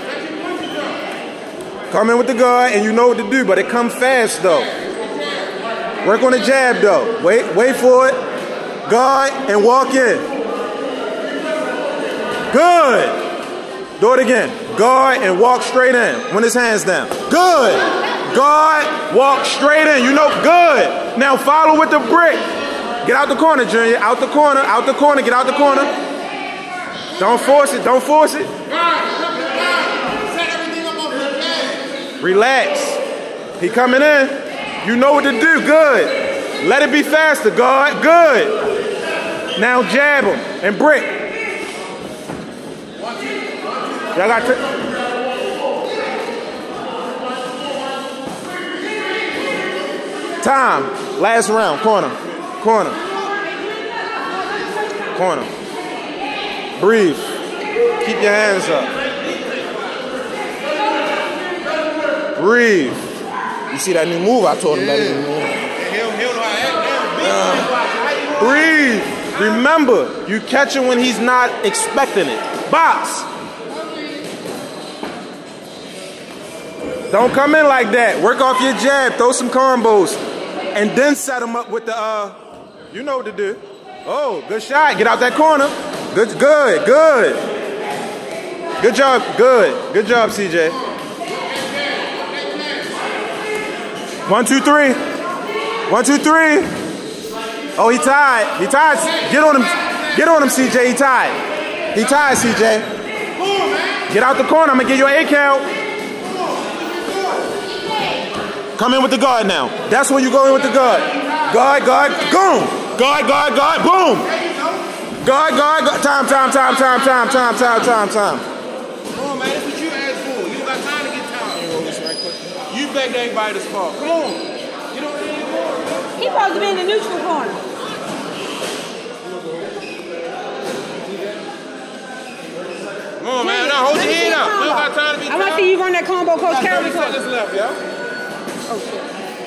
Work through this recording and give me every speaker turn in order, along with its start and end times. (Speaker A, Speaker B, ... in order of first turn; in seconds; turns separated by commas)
Speaker A: 0.5-0.8, Speaker B: 1.9-4.7, Speaker B: 6.0-8.2, Speaker B: 8.9-10.2, Speaker B: 12.5-13.2, Speaker B: 14.0-22.5, Speaker B: 23.0-25.9, Speaker B: 27.2-28.5, Speaker A: 29.2-31.8, Speaker B: 32.2-33.0, Speaker B: 33.6-38.5, Speaker B: 39.6-41.2, Speaker B: 44.1-44.7, Speaker B: 50.4-53.0, Speaker B: 55.1-55.5, Speaker B: 56.8-57.3, Speaker B: 58.0-58.9, Speaker B: 62.4-63.0, Speaker B: 63.7-65.7, Speaker A: 65.9-68.1, Speaker B: 67.3-73.3, Speaker B: 77.1-80.2, Speaker B: 80.7-82.4, Speaker B: 82.9-87.4, Speaker B: 88.8-90.8, Speaker B: 94.3-95.0, Speaker B: 95.9-96.7, Speaker B: 97.8-101.4, Speaker B: 101.9-102.9, Speaker B: 104.1-105.7, Speaker B: 108.8-114.3, Speaker B: 115.2-118.5, Speaker A: 119.1-124.4, Speaker A: 124.9-126.0, Speaker C: 126.2-127.6, Speaker A: 133.2-135.6, Speaker C: 133.4-137.2, Speaker A: 136.6-137.8, Speaker C: 138.7-139.1